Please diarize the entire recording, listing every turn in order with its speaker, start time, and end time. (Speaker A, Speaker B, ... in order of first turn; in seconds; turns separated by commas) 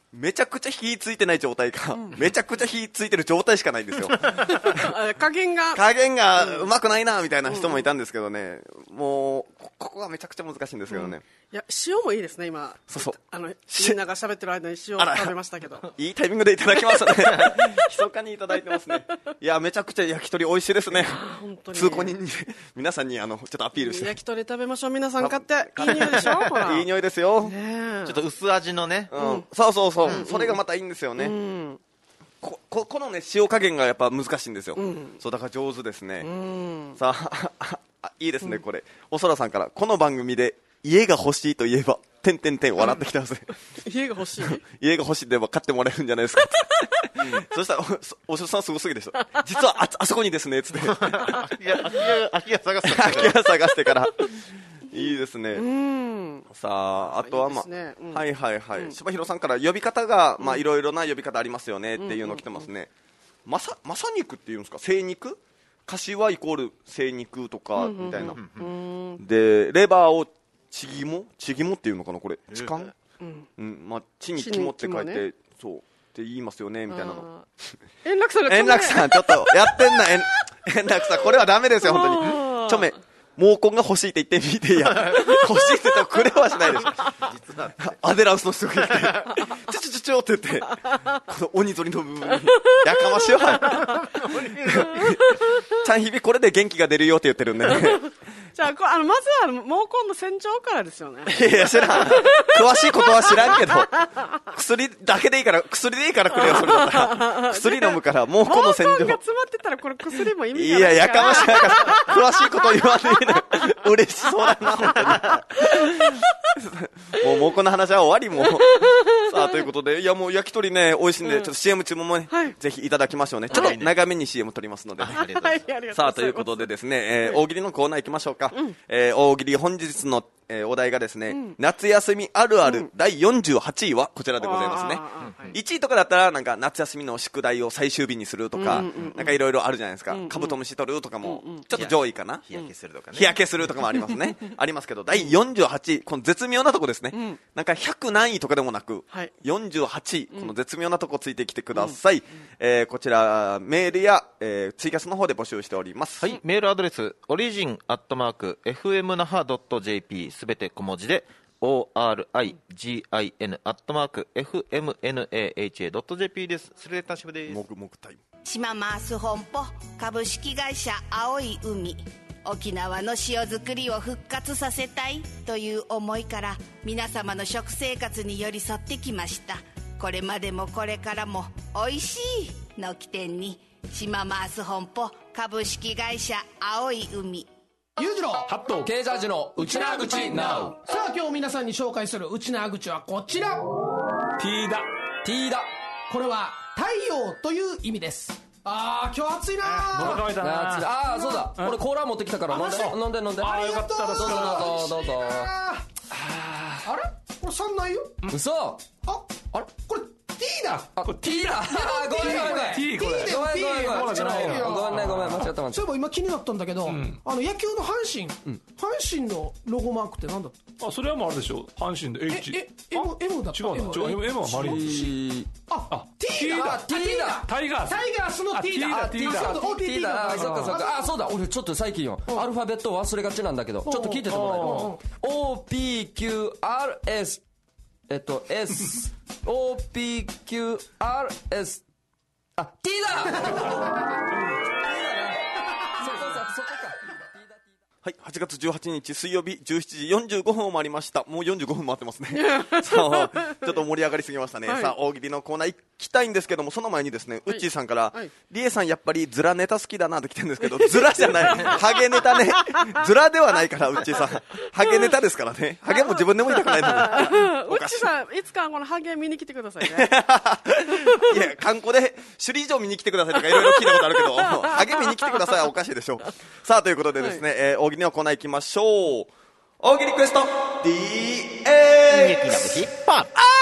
Speaker A: 0.1-4.9, Speaker B: 4.4-5.8, Speaker A: 5.7-11.2, Speaker B: 6.4-6.7, Speaker B: 7.5-7.9, Speaker B: 10.9-15.9, Speaker A: 12.9-13.2, Speaker A: 13.7-14.0, Speaker A: 15.0-24.2, Speaker B: 17.3-17.8, Speaker B: 18.7-18.9, Speaker B: 21.0-22.1, Speaker B: 23.8-26.9, Speaker A: 25.2-27.5, Speaker B: 27.4-28.2, Speaker C: 28.1-29.1, Speaker A: 29.1-31.4, Speaker B: 29.2-29.5, Speaker B: 30.0-30.6, Speaker B: 31.2-31.8, Speaker A: 32.4-36.3, Speaker B: 34.8-35.2, Speaker B: 36.2-37.0, Speaker A: 37.0-43.5, Speaker B: 43.8-44.6, Speaker A: 44.4-51.5, Speaker C: 50.8-53.4, Speaker A: 52.8-55.7, Speaker B: 55.5-56.5, Speaker A: 56.5-62.9, Speaker B: 57.1-59.0, Speaker B: 62.0-62.6, Speaker A: 63.5-68.4, Speaker B: 67.8-69.2, Speaker C: 68.2-68.7, Speaker A: 69.2-72.9, Speaker C: 72.5-72.9, Speaker B: 73.2-73.5, Speaker A: 73.6-77.3, Speaker B: 74.4-75.2, Speaker B: 76.9-77.5, Speaker B: 78.0-80.2, Speaker A: 78.5-87.1, Speaker B: 81.8-83.0, Speaker C: 84.9-85.4, Speaker B: 85.3-87.1, Speaker C: 87.0-88.0, Speaker A: 87.8-98.1, Speaker C: 88.9-89.2, Speaker B: 90.8-91.1, Speaker B: 92.4-94.1, Speaker C: 93.7-95.1, Speaker B: 94.9-95.8, Speaker B: 97.7-104.3, Speaker A: 101.3-109.2, Speaker B: 106.4-113.6, Speaker A: 110.5-125.2, Speaker B: 114.3-116.5, Speaker B: 118.4-119.7, Speaker B: 121.2-121.5, Speaker B: 122.3-122.6, Speaker C: 123.5-124.0, Speaker C: 125.0-125.7, Speaker B: 125.1-126.7, Speaker A: 125.9-142.4, Speaker B: 128.5-128.8, Speaker B: 131.3-131.6, Speaker B: 132.6-132.9, Speaker B: 134.4-135.6, Speaker C: 135.2-135.5, Speaker B: 138.6-139.4, Speaker C: 138.7-139.1, Speaker B: 140.1-140.6, Speaker B: 141.2-141.7, Speaker C: 141.7-143.4, Speaker A: 143.1-156.3, Speaker B: 147.1-147.4, Speaker C: 156.2-167.6, Speaker A: 167.5-168.2, Speaker D: 168.4-187.5, Speaker E: 188.0-188.5, Speaker F: 188.5-188.9, Speaker G: 188.8-190.8, Speaker E: 189.6-193.7, Speaker F: 194.4-194.9, Speaker G: 195.2-195.7, Speaker E: 196.1-200.3, Speaker F: 199.7-201.8, Speaker G: 200.4-205.5, Speaker E: 201.1-201.5, Speaker E: 202.5-202.9, Speaker F: 202.6-204.7, Speaker E: 203.4-205.9, Speaker F: 206.1-206.9, Speaker E: 206.8-208.2, Speaker G: 208.3-208.8, Speaker E: 209.0-211.0, Speaker G: 211.0-215.8, Speaker F: 211.0-211.7, Speaker E: 211.8-220.6, Speaker F: 212.3-215.5, Speaker F: 216.9-217.2, Speaker F: 220.8-225.0, Speaker E: 222.3-225.2, Speaker G: 224.4-225.5, Speaker E: 225.7-231.2, Speaker F: 225.9-226.9, Speaker G: 226.6-227.4, Speaker F: 227.4-229.6, Speaker G: 228.9-237.4, Speaker F: 230.2-230.8, Speaker E: 233.8-235.0, Speaker F: 234.5-234.9, Speaker G: 238.1-241.8, Speaker G: 242.6-244.0, Speaker G: 244.7-245.4, Speaker G: 245.9-247.6, Speaker A: 248.0-268.1, Speaker B: 252.3-253.8, Speaker B: 254.7-254.9, Speaker B: 257.5-258.3, Speaker B: 260.7-263.0, Speaker B: 264.5-265.1, Speaker B: 265.9-270.1, Speaker A: 269.8-282.9, Speaker B: 270.9-271.4, Speaker B: 273.4-275.6, Speaker C: 282.1-283.4